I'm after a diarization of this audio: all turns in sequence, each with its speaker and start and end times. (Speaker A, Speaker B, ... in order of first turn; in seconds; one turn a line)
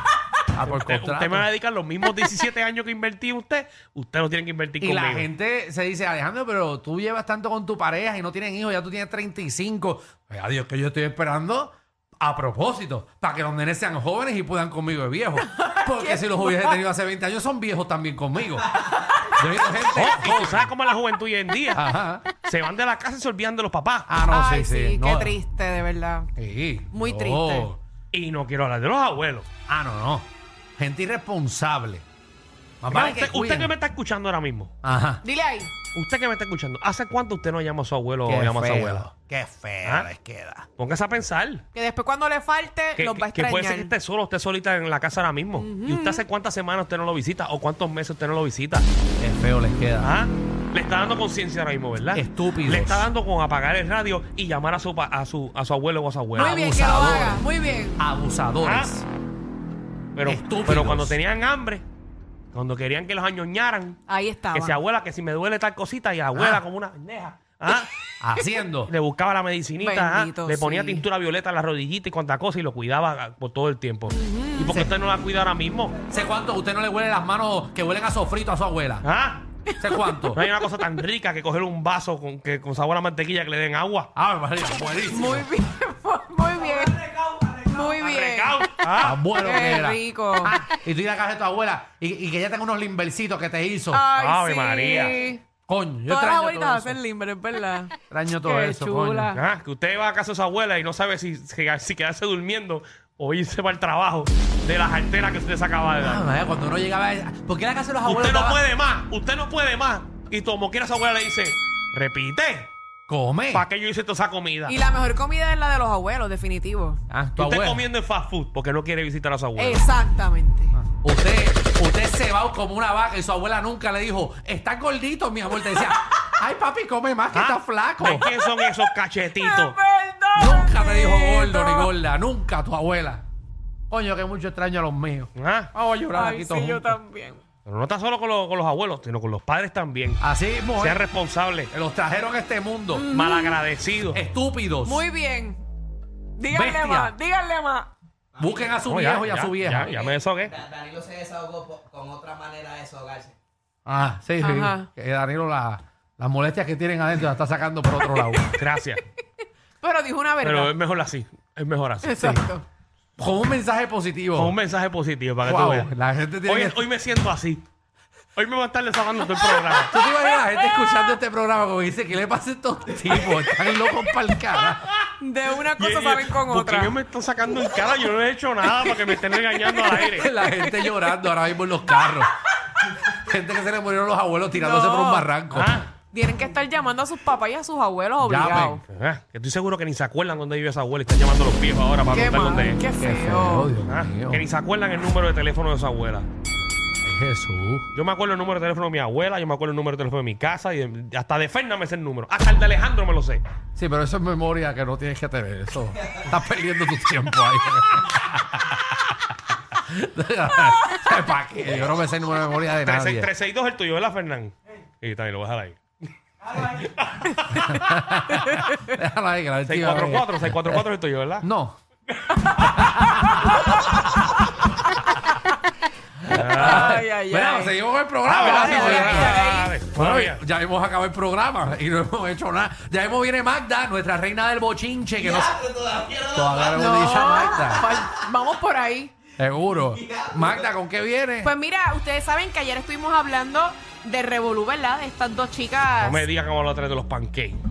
Speaker A: 0.5-1.5
Speaker B: 0.6-5.3
Speaker A: 4.8-20.7
Speaker C: 15.4-16.8
Speaker B: 19.9-24.1
Speaker A: 21.7-22.2
Speaker A: 24.1-25.4
Speaker C: 24.3-26.3
Speaker A: 26.4-27.8
Speaker C: 26.9-27.7
Speaker B: 28.1-29.5
Speaker A: 29.7-32.0
Speaker A: 32.8-33.7
Speaker B: 32.9-34.7
Speaker A: 34.8-35.2
Speaker C: 35.2-35.7
Speaker B: 35.9-39.1
Speaker A: 38.3-40.7
Speaker B: 40.8-41.6
Speaker C: 41.7-43.9
Speaker B: 43.0-48.9
Speaker C: 45.6-46.2
Speaker A: 49.2-50.1
Speaker B: 50.0-56.6
Speaker A: 52.1-53.1
Speaker A: 56.4-59.1
Speaker C: 56.4-58.1
Speaker B: 58.6-58.9
Speaker B: 60.1-61.9
Speaker A: 60.2-61.2
Speaker B: 62.5-64.0
Speaker C: 64.1-64.8
Speaker B: 64.5-67.9
Speaker A: 66.3-66.6
Speaker A: 68.2-68.9
Speaker B: 68.9-76.0
Speaker C: 69.8-71.0
Speaker C: 74.1-74.9
Speaker A: 76.1-79.1
Speaker B: 79.0-79.5
Speaker C: 79.7-80.5
Speaker A: 79.8-80.5
Speaker B: 80.3-84.1
Speaker A: 84.2-85.5
Speaker C: 85.1-88.7
Speaker B: 87.9-89.2
Speaker A: 89.0-94.0
Speaker C: 89.3-90.6
Speaker C: 93.9-95.4
Speaker B: 94.1-95.2
Speaker A: 95.7-97.0
Speaker C: 96.1-99.4
Speaker A: 98.1-99.4
Speaker B: 99.3-106.3
Speaker A: 106.0-108.6
Speaker B: 108.0-112.7
Speaker A: 113.1-113.7
Speaker B: 113.5-114.8
Speaker C: 114.7-117.0
Speaker A: 117.1-117.8
Speaker B: 117.4-119.9
Speaker C: 119.6-120.8
Speaker A: 120.7-128.3
Speaker B: 127.3-129.8
Speaker C: 128.3-131.9
Speaker A: 130.4-133.2
Speaker A: 133.9-137.0
Speaker B: 135.4-135.7
Speaker C: 136.1-137.4
Speaker B: 137.7-140.2
Speaker A: 140.2-141.0
Speaker B: 140.8-141.7
Speaker A: 141.7-143.1
Speaker C: 142.9-143.6
Speaker B: 143.1-144.3
Speaker A: 144.1-145.1
Speaker C: 144.8-145.6
Speaker C: 146.4-147.9
Speaker A: 146.5-147.2
Speaker A: 148.4-150.0
Speaker B: 148.8-150.6
Speaker D: 150.8-153.3
Speaker A: 153.9-158.5
Speaker C: 154.4-154.9
Speaker C: 158.2-158.4
Speaker B: 158.5-159.0
Speaker C: 159.8-160.7
Speaker B: 160.4-162.2
Speaker C: 162.0-162.7
Speaker A: 162.2-162.4
Speaker A: 163.2-164.6
Speaker B: 164.4-165.9
Speaker A: 165.4-166.8
Speaker B: 166.5-167.7
Speaker B: 168.4-169.9
Speaker C: 169.6-171.2
Speaker A: 169.9-174.9
Speaker C: 173.1-174.2
Speaker C: 175.2-177.0
Speaker B: 175.7-180.3
Speaker C: 178.8-181.2
Speaker A: 180.0-182.3
Speaker A: 183.0-185.8
Speaker C: 184.5-185.3
Speaker B: 185.5-185.9
Speaker C: 186.1-188.8
Speaker A: 188.2-188.8
Speaker B: 188.9-192.8
Speaker C: 192.0-193.7
Speaker A: 192.9-194.4
Speaker B: 193.9-196.3
Speaker A: 197.0-197.9
Speaker B: 197.9-203.4
Speaker A: 203.8-213.3
Speaker B: 211.7-212.0
Speaker B: 212.8-215.8
Speaker B: 216.5-217.7
Speaker C: 217.3-218.9
Speaker A: 217.5-220.8
Speaker B: 219.7-221.5
Speaker A: 221.4-221.8
Speaker B: 222.2-222.5
Speaker C: 222.5-223.6
Speaker A: 222.8-223.8
Speaker C: 225.0-225.5
Speaker A: 226.2-235.6
Speaker B: 226.3-227.0
Speaker C: 226.3-227.8
Speaker B: 228.2-230.4
Speaker C: 228.4-229.7
Speaker A: 236.2-237.9
Speaker C: 236.7-239.1
Speaker A: 239.4-241.5
Speaker C: 241.4-246.3
Speaker B: 246.0-247.6